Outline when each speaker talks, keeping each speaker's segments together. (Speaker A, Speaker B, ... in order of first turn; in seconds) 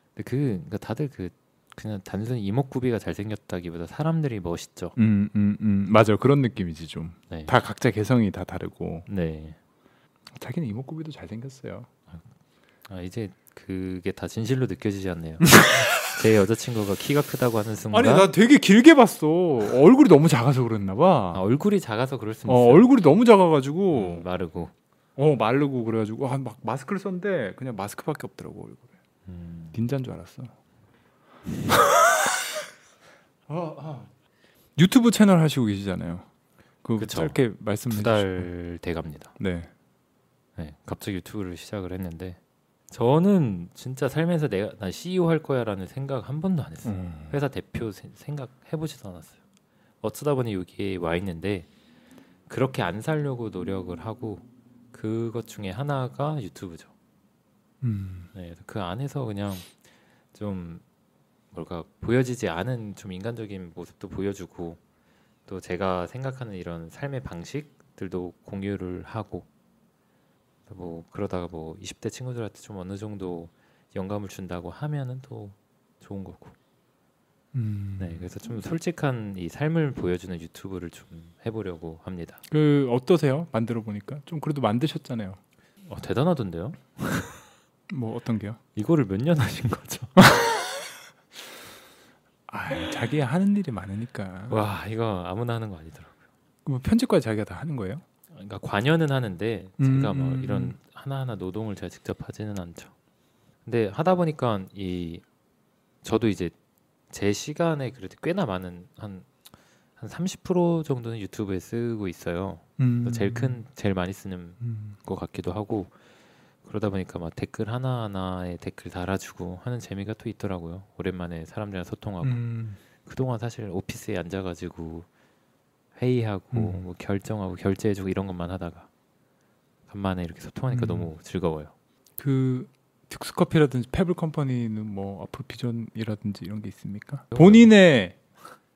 Speaker A: 0.2-5.0, 9.1-9.6, 12.9-18.3, 21.3-22.9, 23.9-24.7, 29.3-29.8, 37.0-37.4, 37.9-39.3, 40.6-42.4, 42.9-49.4, 50.0-51.7, 52.5-56.9, 58.3-59.8, 60.3-60.8, 61.5-64.8, 65.5-69.5, 70.7-76.6, 78.0-82.4, 85.8-87.3, 88.8-90.1, 94.5-96.1, 98.3-102.9, 103.7-105.2, 106.0-106.5, 107.1-109.3, 110.0-115.9, 116.6-122.4, 123.0-125.1, 126.0-128.9, 129.9-131.7, 137.3-137.7
Speaker B: 5.0-9.1, 10.3-11.9, 15.4-16.1, 17.9-21.4, 22.5-24.2, 25.2-28.9, 29.7-30.5, 33.5-34.1, 34.8-36.3, 36.8-38.5, 39.4-39.7, 46.9-47.4, 57.8-58.3, 77.5-78.3, 82.5-85.4, 87.9-88.6, 90.2-90.6, 92.5-94.6, 96.7-98.0, 99.8-100.8, 112.8-113.6, 114.6-115.0, 122.2-122.8, 126.5-126.9, 130.7-131.1, 132.2-138.2